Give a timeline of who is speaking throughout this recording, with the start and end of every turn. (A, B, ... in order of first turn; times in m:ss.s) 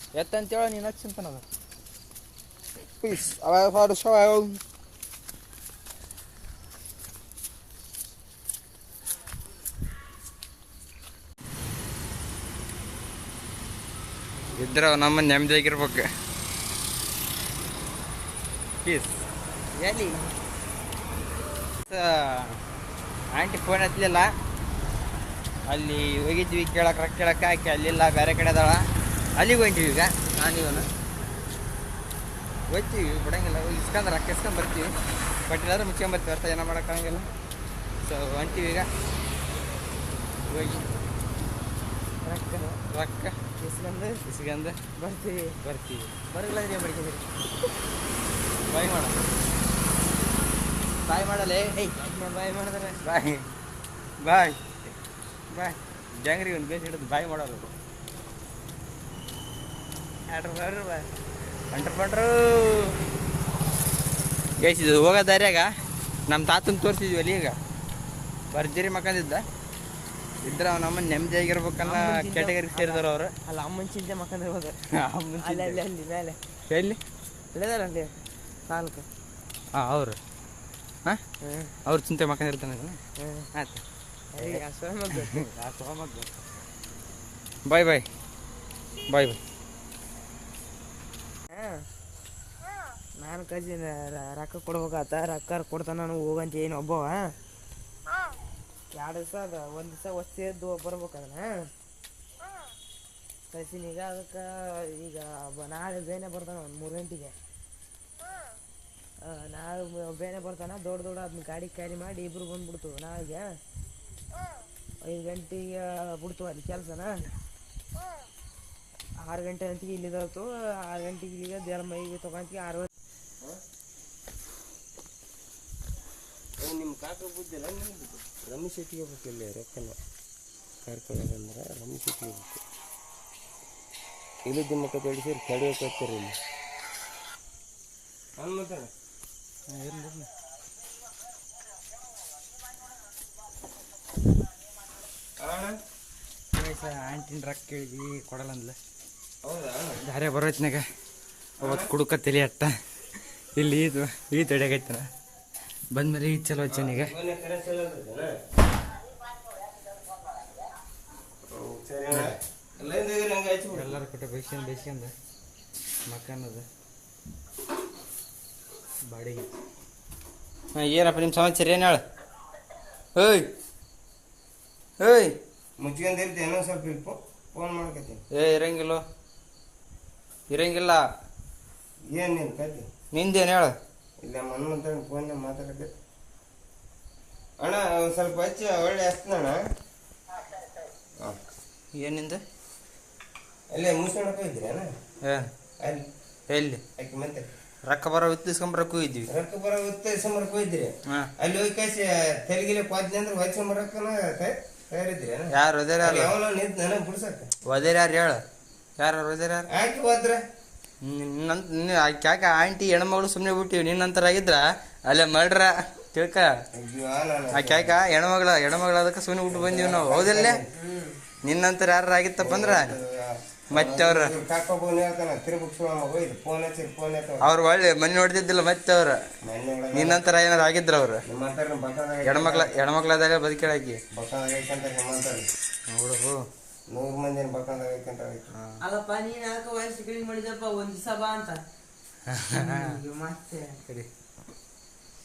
0:00.2-0:01.4 A
0:03.0-0:04.6 A
0:14.6-0:16.0 A
0:18.8-0:19.2 A
0:19.8-0:20.2 A
0:21.9-0:22.6 A
0:23.3-0:24.3 A
0:25.7-0:28.9 A
0:29.4-0:30.9 A
0:32.7-0:34.9 A
0:35.5-0:37.3 A
0:38.0-0:38.9 A
0:40.5-0:40.9 A
0:42.2-0:42.8 B
0:42.9-0:43.4 A
0:43.6-0:44.2 B
0:44.3-0:44.8 A
0:45.0-0:45.6 B
0:45.6-0:46.1 A
0:46.3-0:47.3 B
0:48.7-0:49.2 A
0:51.1-0:51.8 A
0:51.7-0:53.0 B
0:53.0-0:53.5 A
0:54.2-0:54.6 A
0:55.5-0:57.7 A
1:00.3-1:01.1 B
1:01.7-1:03.0 A
1:04.6-1:05.7 A
1:06.3-1:07.6 A
1:08.5-1:09.4 A
1:10.4-1:13.3 A
1:11.8-1:14.8 B
1:15.0-1:15.8 A
1:15.4-1:16.4 B
1:16.7-1:17.0 A
1:17.5-1:18.1 B
1:18.7-1:19.1 B
1:19.7-1:20.2 A
1:21.4-1:21.8 B
1:21.9-1:23.0 A
1:23.2-1:23.5 B
1:23.6-1:23.8 A
1:24.3-1:25.5 B
1:24.4-1:24.6 A
1:25.2-1:26.6 A
1:27.7-1:28.1 A
1:29.1-1:29.4 A
1:31.5-1:31.8 B
1:33.2-1:37.4 B
1:38.9-1:41.7 B
1:43.5-1:47.4 B
1:49.2-1:53.6 B
1:55.0-1:57.3 B
1:59.2-2:02.9 B
2:06.6-2:10.0 C
2:10.8-2:12.6 C
2:14.5-2:16.4 C
2:18.4-2:18.9 C
2:19.7-2:20.3 A
2:25.4-2:25.8 C
2:26.5-2:28.8 A
2:29.4-2:30.0 C
2:30.0-2:30.8 A
2:31.6-2:31.9 C
2:31.6-2:32.7 A
2:33.6-2:35.1 A
2:35.9-2:37.1 A
2:36.7-2:38.3 C
2:41.5-2:44.0 C
2:42.1-2:42.4 A
2:43.7-2:45.1 A
2:46.1-2:46.7 A
2:49.1-2:49.5 A
2:50.7-2:52.0 A
2:53.2-2:53.5 A
2:55.0-2:55.4 A
2:55.8-2:58.2 C
2:58.3-2:59.0 A
3:00.5-3:01.0 A
3:02.1-3:02.9 C
3:03.1-3:03.7 A
3:04.2-3:05.9 C
3:07.6-3:09.6 C
3:11.9-3:12.4 A
3:13.7-3:14.9 C
3:15.2-3:15.5 A
3:16.5-3:16.8 A
3:17.0-3:17.5 C
3:17.9-3:19.3 A
3:19.3-3:27.5 C
3:25.5-3:26.4 A
3:27.7-3:28.4 A
3:29.0-3:29.7 A
3:29.7-3:30.4 C
3:31.0-3:36.5 A
3:36.8-3:38.0 C
3:37.5-3:40.6 A
3:39.5-3:40.7 C
3:40.8-3:41.2 B
3:41.4-3:43.0 A
3:42.4-3:47.5 C
3:43.7-3:44.4 A
3:47.4-3:49.2 A
3:49.4-3:50.2 C
3:49.9-3:51.2 A
3:51.3-3:52.8 C
3:52.2-3:54.0 A
3:54.1-3:55.5 C
3:55.9-3:56.5 A
3:56.9-3:58.5 C
3:58.5-3:58.8 A
3:58.8-4:01.6 B
4:02.3-4:02.9 A
4:02.5-4:03.8 B